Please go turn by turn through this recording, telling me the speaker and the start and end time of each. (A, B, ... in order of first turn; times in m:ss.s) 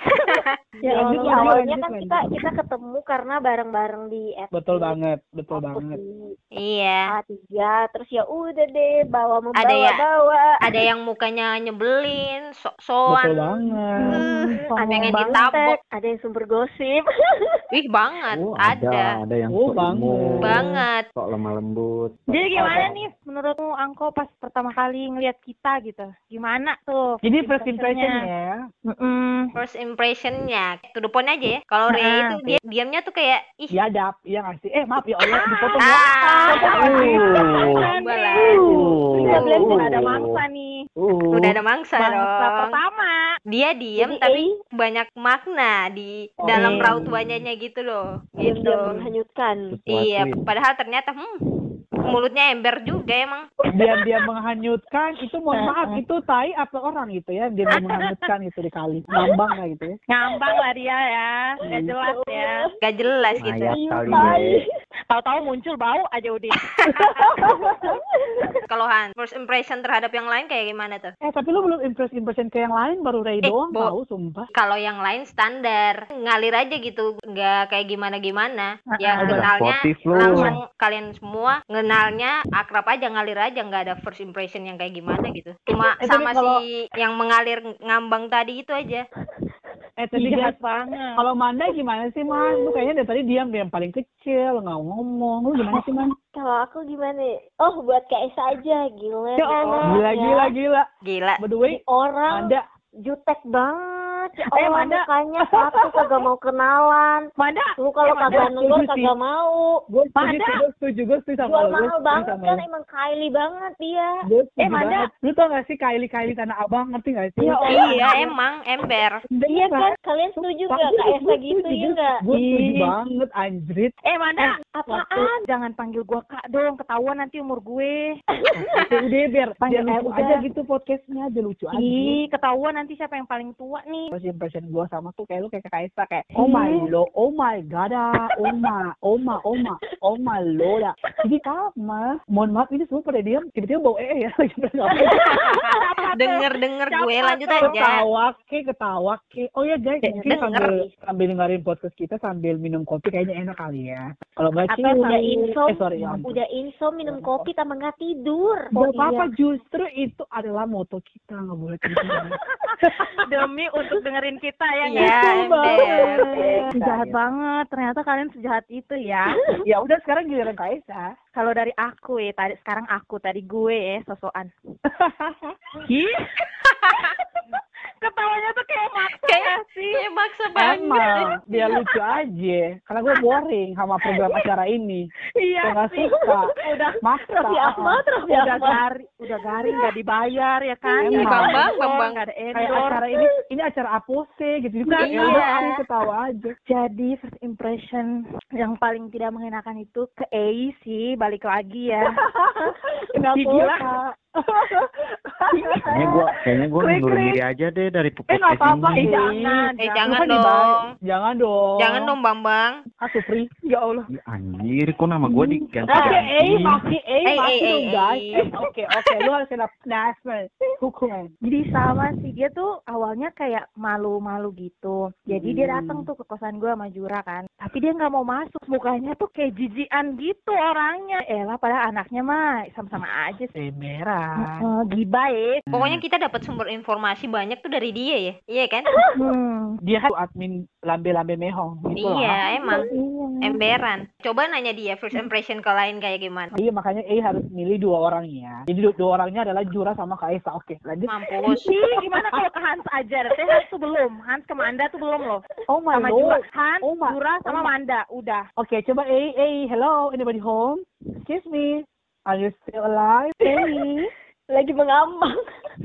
0:00.2-0:04.9 A
0:00.8-0:02.2 B
0:00.8-0:01.6 C
0:04.5-0:06.0 B
0:05.5-0:06.4 A
0:06.6-0:07.0 D
0:07.1-0:10.8 A
0:09.6-0:10.0 D
0:10.6-0:13.6 D
0:13.1-0:14.2 B
0:14.0-0:15.4 C
0:14.2-0:17.6 A
0:14.8-0:15.8 D
0:17.7-0:19.1 D
0:18.3-0:23.0 E
0:19.5-0:20.8 B
0:20.4-0:21.0 D
0:22.3-0:28.2 C
0:27.2-0:28.6 B
0:28.9-0:29.4 C
0:29.6-0:33.7 D
0:31.9-0:32.6 C
0:33.7-0:37.3 B
0:35.3-0:40.8 C
0:35.8-0:36.6 D
0:36.8-0:37.8 E
0:37.9-0:38.6 D
0:38.4-0:40.0 A
0:38.6-0:40.4 E
0:41.0-0:41.6 E
0:41.3-0:42.8 D
0:42.0-0:43.2 C
0:43.5-0:48.9 D
0:44.0-0:44.5 A
0:46.4-0:47.1 B
0:46.5-0:46.9 C
0:48.4-0:49.6 A
0:49.7-0:50.4 E
0:49.9-0:51.3 D
0:52.0-0:53.4 D
0:53.7-0:59.9 B
0:55.6-0:56.0 C
0:57.8-0:58.2 C
1:00.1-1:02.5 C
1:01.7-1:02.7 A
1:02.8-1:03.8 D
1:03.2-1:04.6 A
1:03.4-1:04.6 E
1:05.1-1:06.6 C
1:06.7-1:07.2 D
1:07.4-1:07.7 B
1:08.7-1:11.1 D
1:11.2-1:14.5 B
1:13.4-1:13.9 D
1:14.5-1:29.0 D
1:18.9-1:19.4 C
1:19.2-1:20.5 E
1:26.0-1:26.6 B
1:30.0-1:30.5 B
1:30.1-1:31.2 C
1:31.2-1:36.1 B
1:32.3-1:32.8 A
1:36.3-1:40.5 A
1:39.4-1:40.0 C
1:39.8-1:40.9 B
1:41.0-1:41.4 D
1:41.4-1:42.6 B
1:41.7-1:47.3 A
1:44.5-1:45.0 C
1:45.6-1:46.1 B
1:47.4-1:48.4 C
1:47.8-1:49.8 A
1:48.3-1:49.1 B
1:49.9-1:52.6 B
1:50.2-1:50.6 C
1:51.4-1:54.1 A
1:54.2-1:58.0 B
1:54.6-1:55.1 C
1:57.4-1:58.3 A
1:57.6-1:58.2 C
1:57.7-1:59.2 D
1:59.4-2:03.9 B
1:59.5-2:02.2 A
2:02.3-2:02.9 C
2:04.1-2:08.0 C
2:04.7-2:05.3 A
2:08.7-2:12.2 B
2:09.6-2:10.4 C
2:11.7-2:14.1 C
2:14.1-2:25.6 B
2:16.4-2:16.8 A
2:16.5-2:16.8 C
2:25.2-2:26.3 C
2:26.1-2:28.0 D
2:26.9-2:27.7 C
2:27.6-2:36.4 B
2:30.3-2:30.7 D
2:30.4-2:30.9 A
2:34.7-2:38.7 A
2:34.8-2:35.4 C
2:37.0-2:37.5 B
2:38.7-2:43.1 B
2:38.8-2:39.3 C
2:43.2-2:46.0 C
2:44.8-2:46.2 D
2:45.0-2:46.7 B
2:46.3-2:46.7 A
2:46.7-2:49.3 C
2:46.8-2:47.2 E
2:49.6-2:51.1 B
2:51.3-2:54.5 C
2:54.9-2:55.5 B
2:55.9-2:56.1 C
2:56.6-2:57.1 D
2:58.0-3:00.0 C
2:59.2-3:01.3 D
3:00.6-3:05.1 B
3:05.4-3:06.0 C
3:05.6-3:06.5 B
3:06.6-3:07.0 C
3:07.0-3:08.0 B
3:07.4-3:08.8 A
3:08.2-3:13.0 C
3:11.0-3:11.5 A
3:11.0-3:11.7 B
3:11.1-3:12.2 D
3:12.5-3:16.5 B
3:12.6-3:13.0 A
3:14.9-3:15.7 C
3:15.0-3:15.7 D
3:16.7-3:22.1 C
3:22.3-3:24.8 B
3:23.3-3:23.8 C
3:25.4-3:25.8 B
3:25.9-3:29.0 E
3:28.3-3:32.1 B
3:29.0-3:30.0 C
3:29.8-3:30.9 D
3:31.8-3:32.8 D
3:33.0-3:33.5 B
3:33.6-3:34.0 C
3:34.1-3:36.8 E
3:35.4-3:36.1 C
3:35.9-3:41.3 B
3:37.3-3:38.3 D
3:41.4-3:53.5 C
3:45.3-3:46.0 B
3:53.6-3:54.6 B
3:54.6-3:55.6 C
3:55.7-3:56.0 B
3:55.7-3:58.9 D
3:59.1-3:59.8 C
3:59.8-4:02.4 B
4:02.0-4:02.8 D
4:02.6-4:03.6 C
4:03.4-4:06.5 D
4:06.5-4:12.4 B
4:11.1-4:11.7 D
4:11.5-4:18.4 C
4:15.7-4:17.7 B
4:18.6-4:23.4 B
4:23.4-4:25.3 A
4:23.5-4:24.0 C